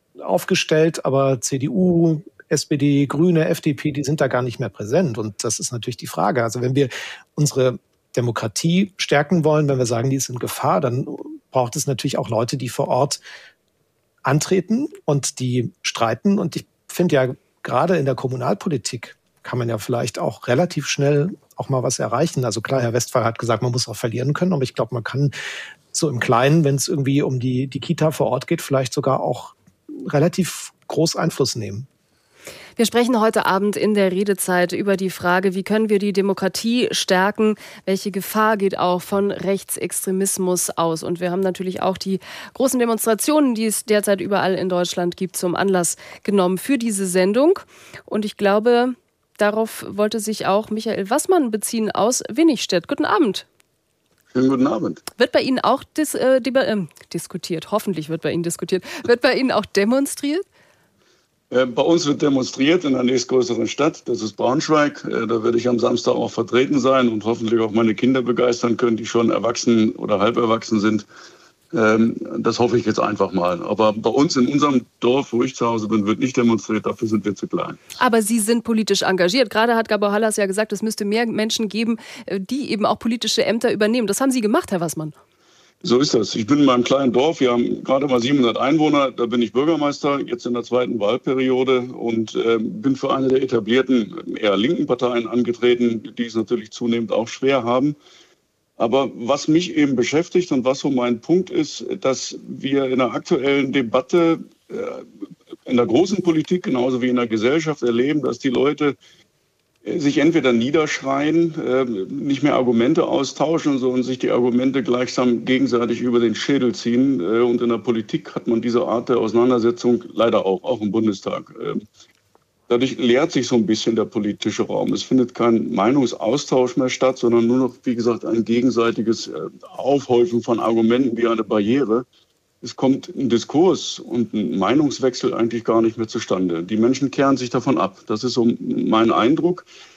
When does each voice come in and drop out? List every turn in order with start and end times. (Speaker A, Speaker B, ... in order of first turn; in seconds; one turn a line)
Speaker A: 0.2-13.2
Speaker A: 14.2-25.3
Speaker A: 25.9-31.9
Speaker B: 32.8-53.4
Speaker C: 54.3-55.0
Speaker B: 55.2-60.4
Speaker C: 61.5-71.0
Speaker C: 71.7-77.8
Speaker B: 78.0-85.1
Speaker C: 85.8-98.0
Speaker C: 98.8-105.0
Speaker C: 105.7-108.9
Speaker C: 109.8-121.8
Speaker C: 122.7-132.0
Speaker C: 132.6-139.7